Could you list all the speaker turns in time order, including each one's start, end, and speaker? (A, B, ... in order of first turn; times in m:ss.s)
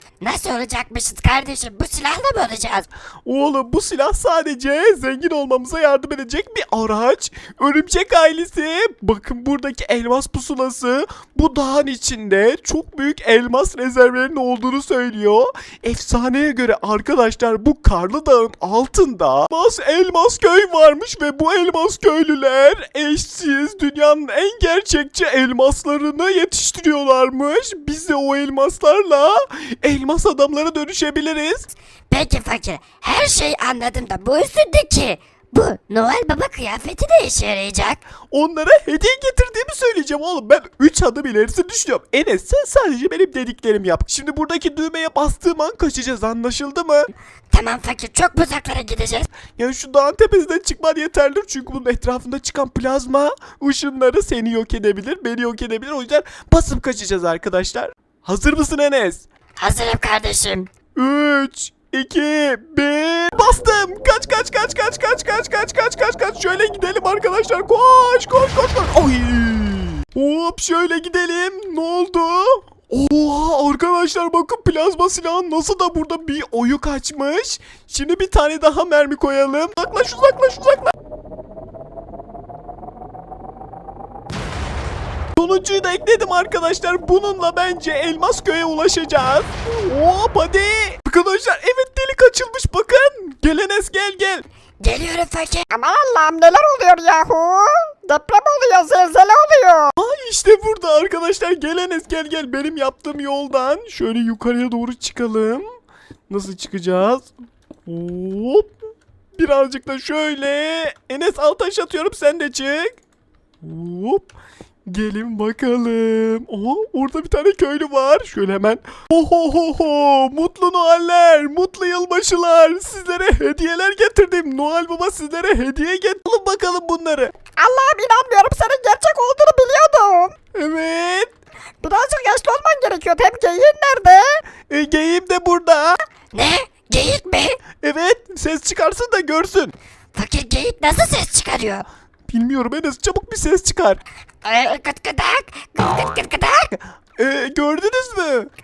0:00.2-0:02.9 A
0:03.2-0:31.7 B
0:32.1-0:38.0 A
0:38.3-0:47.1 B
0:47.5-0:49.3 A
0:49.6-0:59.3 B
0:59.6-1:00.7 A
1:00.9-1:20.9 B
1:25.4-1:34.4 B
1:34.8-1:35.7 A
1:35.7-1:39.9 C
1:40.0-1:45.6 B
1:46.3-1:47.3 B
1:47.9-1:48.7 B
1:49.4-1:53.0 B
1:53.6-1:54.3 B
1:54.8-2:07.3 B
2:07.6-2:10.3 C
2:10.5-2:11.3 B
2:11.8-2:14.4 C
2:14.7-2:16.0 B
2:16.3-2:17.6 A
2:17.8-2:19.7 B
2:20.1-2:21.8 A
2:22.3-2:24.0 B
2:24.4-2:26.8 A
2:27.2-2:28.5 B